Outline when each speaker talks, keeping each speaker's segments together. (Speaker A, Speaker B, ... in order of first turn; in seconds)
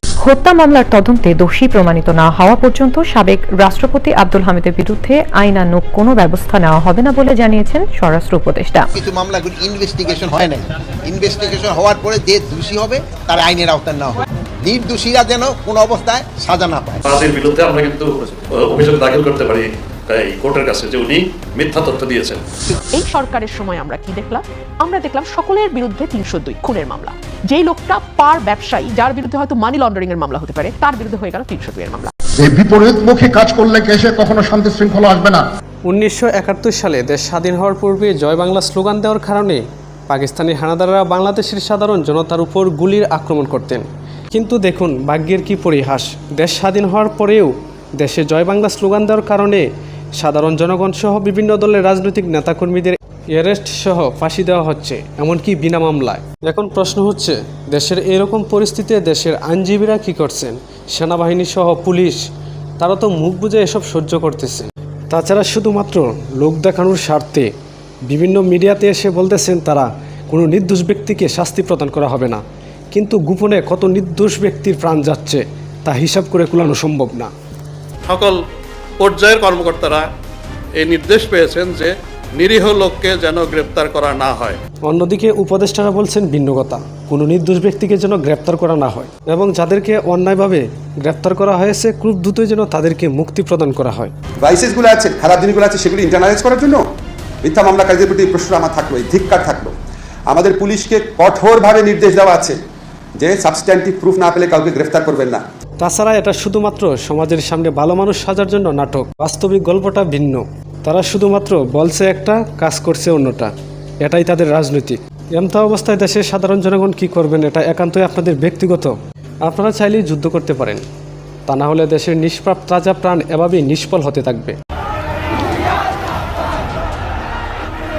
Speaker A: 0.2-8.9
Speaker B: 8.9-17.0
Speaker C: 17.1-22.4
Speaker D: 22.9-32.1
Speaker E: 32.4-35.4
Speaker F: 35.9-49.6, 50.2-62.2, 62.8-67.5, 68.1-72.4, 72.9-77.3, 84.9-94.1, 105.8-113.5, 114.0-120.8, 121.5-124.5
Speaker G: 78.1-78.4, 79.0-80.0, 80.8-84.6
Speaker H: 94.4-96.8, 97.4-99.7, 100.3-102.5, 103.2-105.4